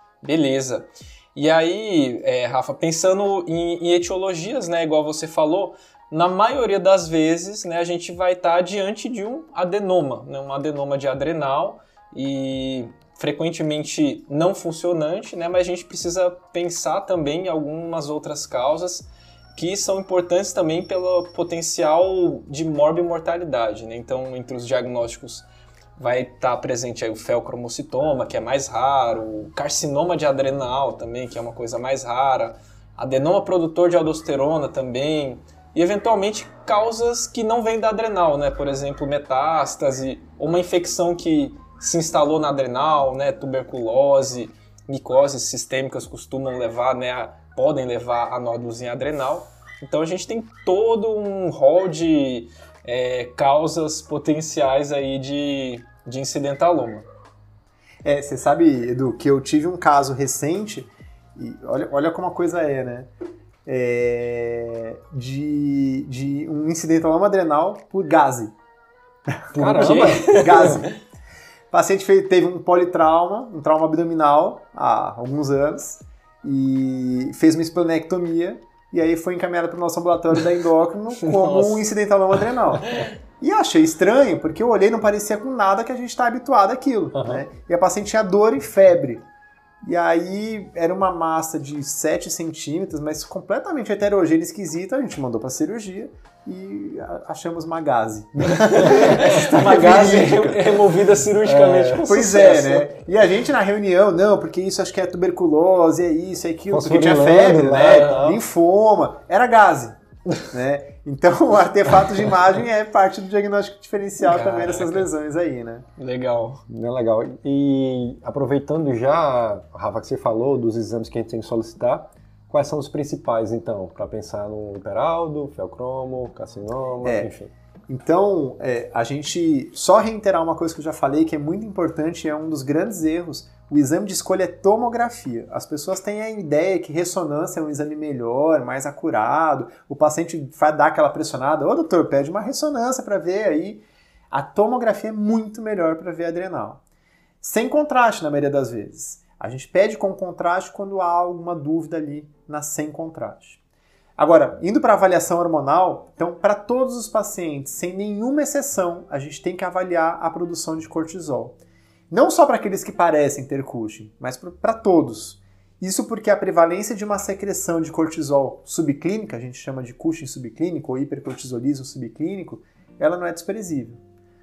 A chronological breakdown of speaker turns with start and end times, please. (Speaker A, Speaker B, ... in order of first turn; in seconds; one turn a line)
Speaker A: 0.2-25.4
Speaker A: 26.0-57.1
Speaker B: 58.0-63.1
Speaker B: 63.6-68.5
Speaker B: 69.3-70.9
Speaker C: 69.5-70.3
Speaker A: 69.7-70.9
Speaker B: 71.7-89.2
Speaker A: 81.2-81.9
Speaker C: 87.1-87.4
Speaker B: 89.8-100.8
Speaker A: 98.7-102.9
Speaker C: 101.4-102.0
Speaker B: 102.1-115.8
Speaker C: 106.7-108.3
Speaker A: 107.6-108.4
Speaker A: 114.2-115.1
Speaker A: 116.0-116.6
Speaker C: 116.7-127.5
Speaker B: 127.0-127.3
Speaker B: 127.9-146.8
Speaker B: 147.4-153.6
Speaker B: 154.2-161.6
Speaker B: 162.1-174.0